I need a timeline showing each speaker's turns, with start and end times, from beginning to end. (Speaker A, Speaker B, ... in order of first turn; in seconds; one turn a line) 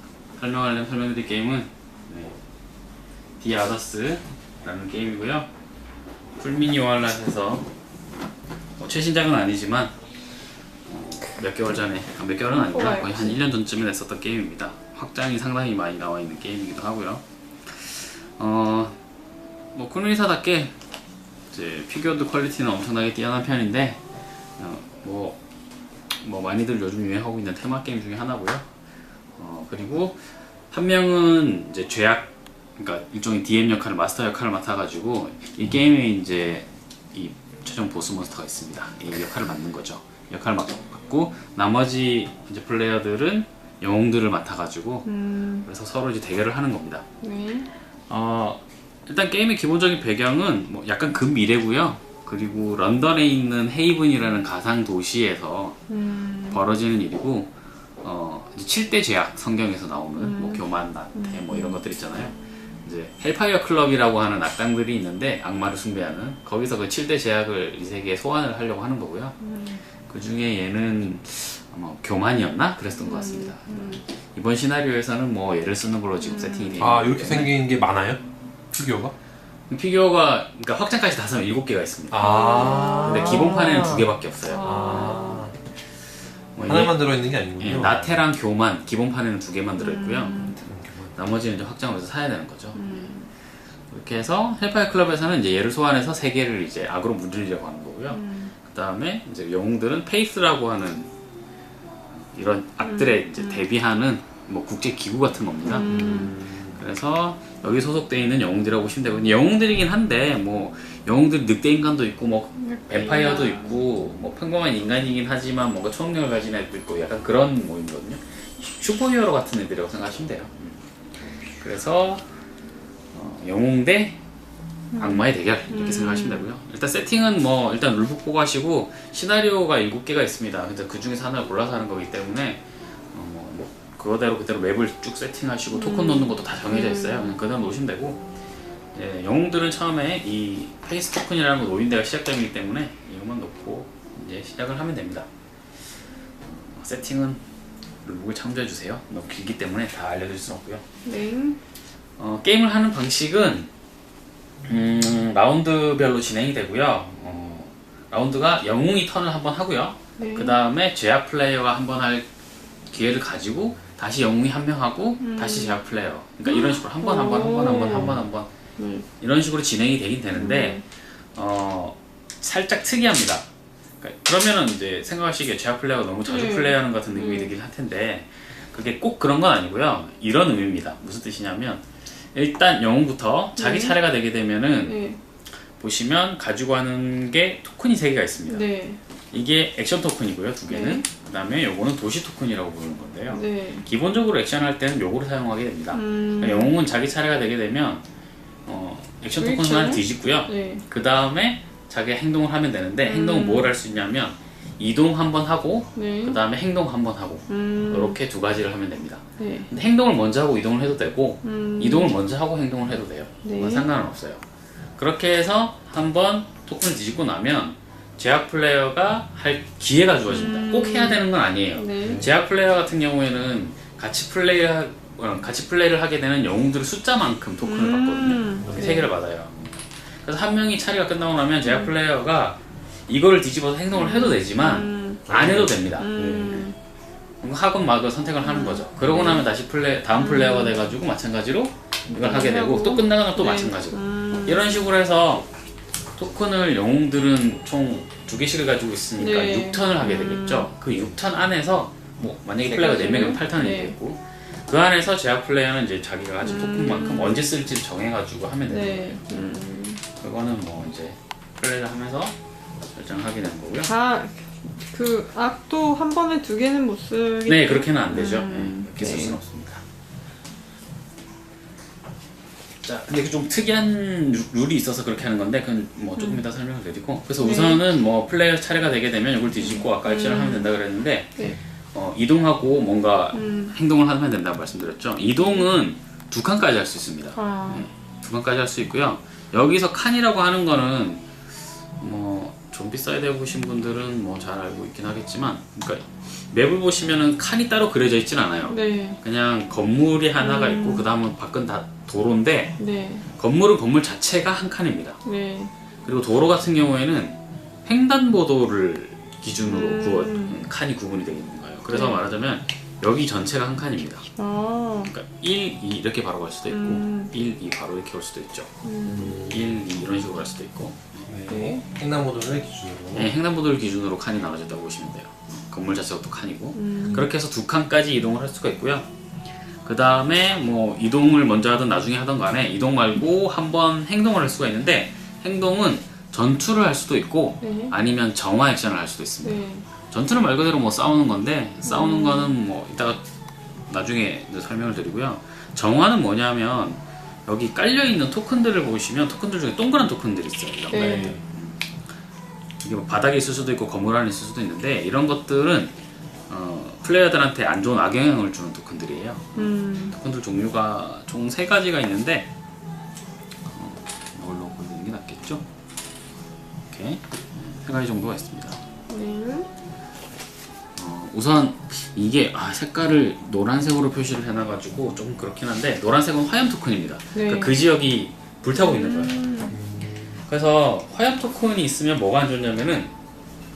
Speaker A: 0.4-2.4
Speaker A: 3.4-5.5
Speaker A: 6.4-7.7
Speaker A: 8.8-9.9
Speaker A: 10.9-19.0
Speaker B: 12.5-13.4
Speaker A: 19.7-20.8
Speaker A: 21.5-24.0
Speaker A: 24.6-25.4
Speaker A: 26.2-28.7
Speaker A: 29.4-45.1
Speaker B: 45.0-45.7
Speaker A: 45.6-47.0
Speaker B: 47.2-47.7
Speaker A: 48.1-55.8
Speaker B: 55.9-56.6
Speaker A: 56.5-69.4
Speaker B: 60.2-61.8
Speaker B: 69.4-69.8
Speaker A: 70.1-77.5
Speaker B: 73.0-74.0
Speaker B: 76.2-76.8
Speaker C: 76.8-79.2
Speaker A: 79.7-85.3
Speaker C: 82.1-85.5
Speaker B: 82.2-83.9
Speaker B: 84.5-85.5
Speaker A: 86.5-93.1
Speaker C: 86.6-88.2
Speaker B: 89.8-90.6
Speaker C: 90.7-91.2
Speaker B: 92.7-93.3
Speaker A: 93.9-101.1
Speaker B: 98.1-98.5
Speaker A: 102.2-120.8
Speaker B: 102.8-103.7
Speaker B: 105.7-106.4
Speaker C: 105.8-106.8
Speaker B: 112.6-113.8
Speaker A: 121.6-122.2
Speaker A: 123.1-124.2
Speaker B: 124.9-126.5
Speaker A: 125.0-138.2
Speaker B: 135.7-137.4
Speaker A: 138.9-145.3
Speaker A: 146.4-147.4
Speaker A: 148.0-150.8
Speaker B: 151.1-151.6
Speaker A: 152.2-153.7
Speaker A: 154.7-162.3
Speaker B: 160.2-160.6
Speaker A: 162.9-168.5
Speaker B: 165.2-165.8
Speaker B: 166.4-168.2
Speaker B: 168.8-169.1
Speaker A: 169.2-170.8
Speaker B: 170.4-170.8
Speaker A: 171.3-173.5
Speaker A: 174.0-185.0
Speaker B: 176.3-177.5
Speaker B: 183.6-184.0
Speaker B: 184.9-185.2
Speaker A: 185.8-188.7
Speaker B: 188.5-189.0
Speaker A: 189.3-198.1
Speaker B: 190.7-191.0
Speaker B: 193.3-193.9
Speaker B: 195.9-196.7
Speaker A: 198.7-214.4
Speaker B: 199.4-200.8
Speaker B: 203.1-203.7
Speaker B: 206.0-206.4
Speaker B: 207.5-208.2
Speaker B: 209.4-209.7
Speaker B: 211.4-212.2
Speaker B: 213.4-213.8
Speaker A: 215.0-236.7
Speaker B: 220.3-222.2
Speaker C: 222.0-222.3
Speaker B: 227.6-229.1
Speaker C: 228.6-229.0
Speaker B: 231.6-231.9
Speaker B: 233.9-235.2
Speaker C: 235.3-236.7
Speaker B: 236.0-236.8
Speaker A: 237.4-245.5
Speaker B: 238.4-239.5
Speaker B: 240.2-240.8
Speaker B: 242.1-244.9
Speaker A: 246.2-259.2
Speaker B: 249.2-250.7
Speaker B: 252.7-254.0
Speaker B: 256.4-257.4
Speaker B: 258.7-260.0
Speaker A: 260.2-262.4
Speaker A: 262.9-263.9
Speaker B: 263.9-269.4
Speaker A: 267.4-269.8
Speaker A: 272.8-281.4
Speaker B: 276.2-276.4
Speaker B: 277.4-277.8
Speaker B: 279.6-280.7
Speaker A: 281.9-291.2
Speaker B: 283.3-283.8
Speaker B: 285.4-285.6
Speaker B: 287.4-287.9
Speaker A: 292.0-302.8
Speaker B: 298.7-299.2
Speaker B: 300.4-301.1
Speaker B: 302.8-303.2
Speaker A: 303.4-305.2
Speaker B: 305.2-305.7
Speaker A: 306.1-314.3
Speaker B: 309.7-310.6
Speaker B: 311.9-312.2
Speaker B: 314.4-315.1
Speaker A: 315.1-318.7
Speaker B: 316.7-317.3
Speaker B: 318.8-319.4
Speaker C: 319.1-319.8
Speaker A: 319.5-321.3
Speaker C: 321.3-323.3
Speaker B: 321.5-321.8
Speaker A: 323.1-329.1
Speaker B: 326.8-327.3
Speaker A: 329.9-343.2
Speaker B: 337.6-337.9
Speaker B: 339.4-339.9
Speaker B: 341.9-342.5
Speaker A: 343.9-351.8
Speaker B: 350.9-351.4
Speaker C: 351.1-351.4
Speaker A: 352.8-355.9
Speaker A: 356.5-362.5
Speaker B: 359.6-360.2
Speaker A: 363.7-365.6
Speaker A: 366.9-368.8
Speaker B: 369.1-369.7
Speaker A: 371.0-379.4
Speaker B: 377.3-377.8
Speaker B: 378.7-379.8
Speaker C: 379.7-380.4
Speaker A: 380.5-383.1